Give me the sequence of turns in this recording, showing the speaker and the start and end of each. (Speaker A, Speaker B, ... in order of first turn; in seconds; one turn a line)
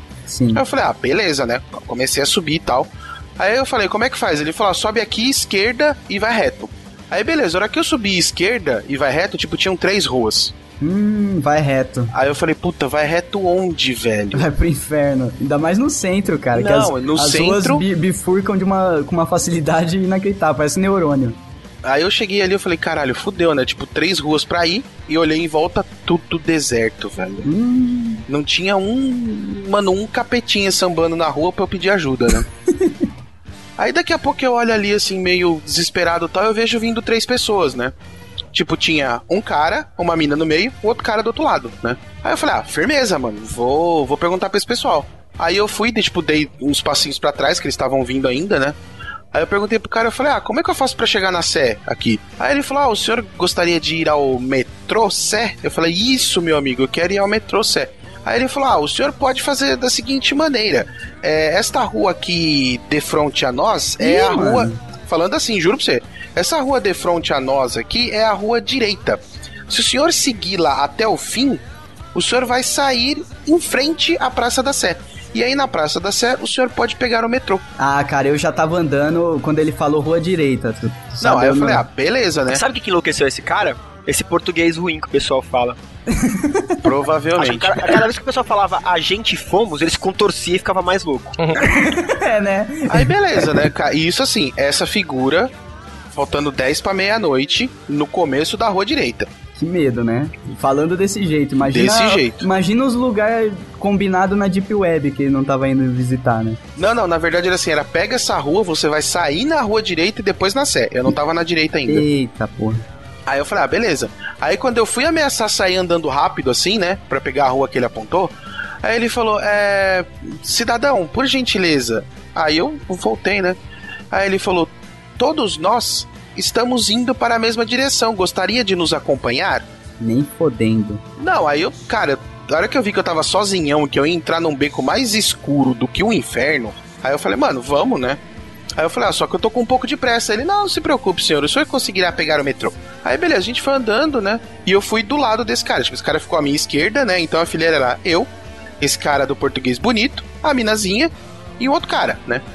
Speaker A: 0.3-0.6
Speaker B: 0.5-10.5
Speaker A: 10.8-12.1
Speaker B: 12.1-14.4
Speaker A: 14.3-21.4
Speaker B: 16.5-17.9
Speaker B: 21.9-27.5
Speaker A: 27.4-28.2
Speaker B: 28.3-32.5
Speaker A: 32.7-33.1
Speaker B: 33.8-37.9
Speaker B: 38.5-48.8
Speaker B: 49.3-71.6
Speaker A: 64.0-64.8
Speaker B: 72.1-77.6
Speaker A: 77.8-81.8
Speaker B: 81.2-82.6
Speaker C: 82.5-85.8
Speaker A: 86.1-86.9
Speaker B: 86.8-88.0
Speaker C: 87.4-91.3
Speaker A: 91.6-93.6
Speaker B: 92.9-95.5
Speaker B: 96.1-99.3
Speaker A: 99.5-106.6
Speaker B: 101.7-102.5
Speaker B: 106.8-112.0
Speaker A: 111.9-112.8
Speaker B: 113.3-118.3
Speaker B: 118.8-123.5
Speaker B: 124.1-129.6
Speaker A: 130.0-131.0
Speaker B: 131.2-138.2
Speaker B: 138.8-148.3
Speaker B: 148.8-152.4